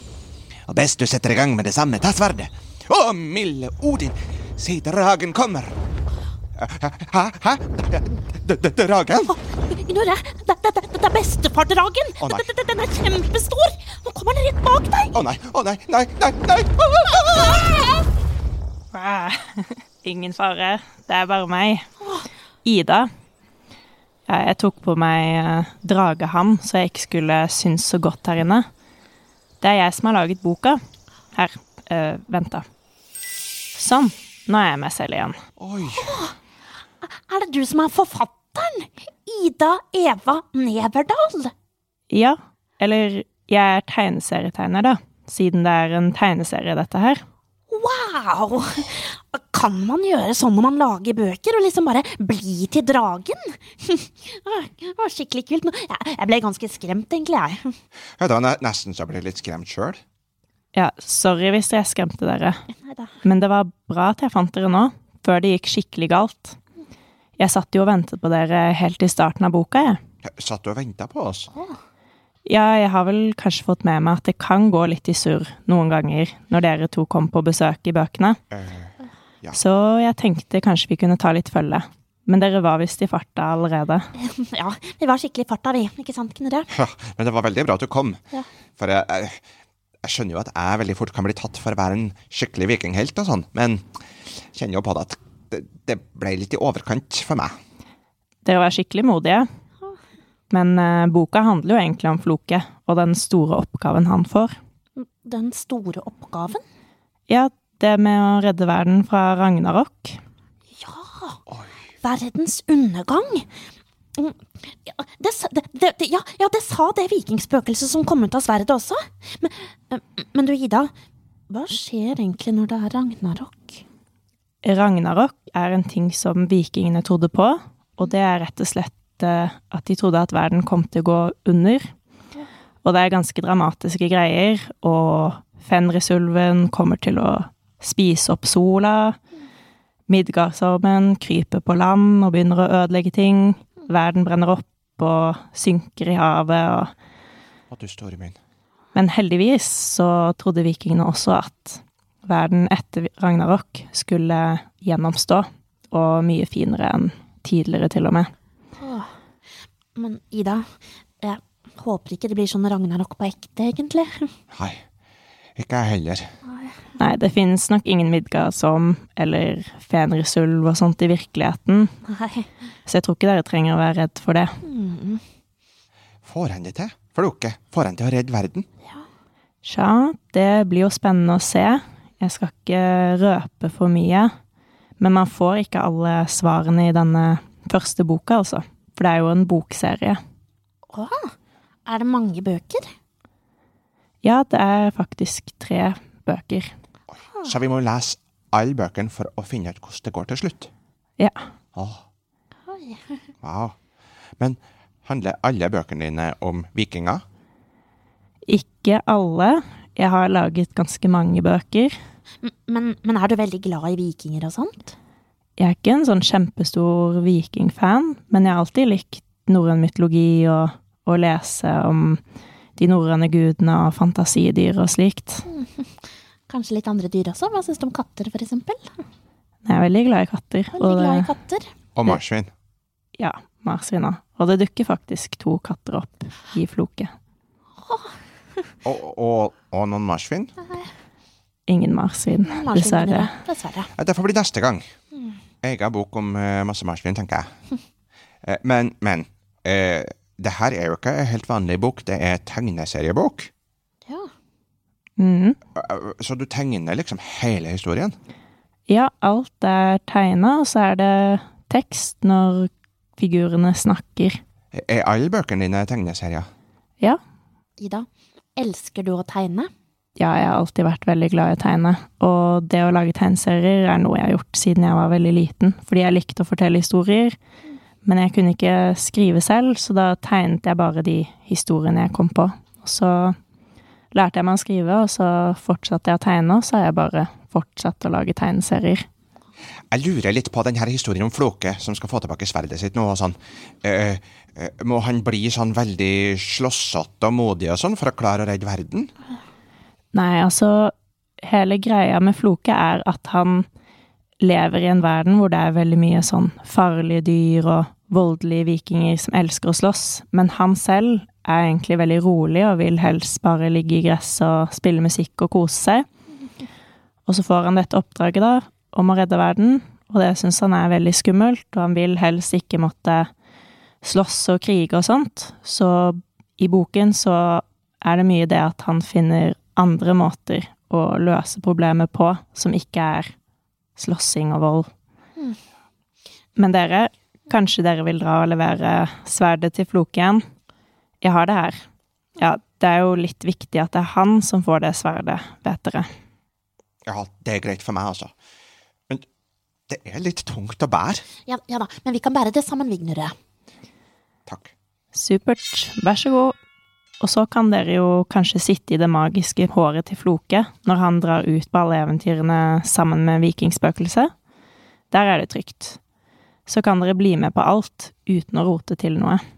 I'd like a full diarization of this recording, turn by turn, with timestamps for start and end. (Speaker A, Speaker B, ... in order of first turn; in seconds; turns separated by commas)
Speaker A: 0.7-5.8, Speaker A: 6.6-9.3, Speaker B: 9.2-15.1, Speaker A: 12.2-12.5, Speaker A: 15.1-17.5, Speaker C: 18.9-21.9, Speaker B: 22.0-22.3, Speaker C: 22.6-23.1, Speaker C: 24.3-28.7, Speaker C: 29.6-30.8, Speaker C: 31.3-32.6, Speaker C: 33.8-35.4, Speaker A: 35.6-36.1, Speaker B: 35.9-36.4, Speaker B: 37.0-41.5, Speaker C: 42.1-47.2, Speaker B: 47.7-57.7, Speaker A: 58.2-60.0, Speaker C: 60.7-62.6, Speaker B: 62.7-63.1, Speaker C: 63.2-66.6, Speaker C: 67.4-70.0, Speaker A: 70.2-71.5, Speaker C: 72.5-78.4, Speaker A: 78.5-79.6, Speaker C: 79.5-84.1, Speaker B: 84.2-86.7, Speaker A: 86.7-88.2, Speaker A: 88.8-89.4, Speaker A: 90.0-93.8, Speaker A: 94.5-97.5, Speaker C: 98.5-99.5, Speaker C: 100.5-104.5, Speaker B: 105.0-106.6, Speaker C: 107.3-110.2, Speaker B: 110.7-111.4, Speaker B: 112.0-113.5, Speaker B: 114.2-120.9, Speaker B: 121.5-123.8, Speaker C: 124.6-131.9, Speaker C: 132.8-139.2, Speaker C: 140.1-146.9, Speaker A: 147.7-148.4, Speaker C: 148.9-158.3, Speaker B: 158.8-159.1, Speaker B: 160.0-160.6, Speaker B: 161.2-164.3, Speaker A: 164.5-164.8, Speaker A: 165.6-166.3, Speaker B: 166.5-166.8, Speaker C: 167.0-171.9, Speaker B: 172.1-172.5, Speaker C: 172.9-174.5, Speaker B: 174.6-175.2, Speaker A: 176.2-178.7, Speaker C: 179.6-184.3, Speaker C: 185.0-190.2, Speaker B: 190.9-191.3, Speaker B: 191.9-192.9, Speaker C: 194.2-196.7, Speaker A: 197.4-200.7, Speaker A: 201.8-202.0, Speaker B: 202.7-203.3, Speaker A: 203.4-203.8, Speaker A: 204.4-207.2, Speaker C: 208.5-212.0, Speaker B: 212.4-214.9, Speaker C: 215.6-222.2, Speaker C: 222.8-225.4, Speaker B: 225.5-225.9, Speaker B: 226.5-228.9, Speaker C: 229.7-231.3, Speaker B: 230.7-231.7, Speaker A: 232.0-232.5, Speaker C: 233.2-237.1, Speaker B: 237.8-238.1, Speaker A: 238.8-240.6, Speaker C: 241.7-243.3, Speaker B: 242.5-243.9, Speaker A: 244.0-244.9, Speaker A: 245.6-247.5, Speaker A: 248.4-253.5, Speaker C: 255.2-255.6, Speaker A: 255.8-258.1, Speaker C: 258.9-264.4, Speaker A: 264.7-266.5, Speaker B: 267.8-269.7, Speaker C: 270.2-277.4, Speaker C: 278.1-283.4, Speaker C: 284.1-289.1, Speaker A: 289.9-299.1, Speaker C: 300.1-303.7, Speaker C: 304.4-316.1, Speaker C: 317.3-323.3, Speaker C: 324.0-333.3, Speaker C: 334.0-334.9, Speaker C: 336.6-340.4, Speaker C: 341.2-341.8, Speaker C: 342.4-346.1, Speaker A: 347.1-348.3, Speaker A: 349.9-351.2, Speaker B: 351.5-353.3, Speaker C: 355.1-356.6, Speaker C: 357.2-364.3, Speaker C: 365.1-366.0, Speaker C: 366.7-369.4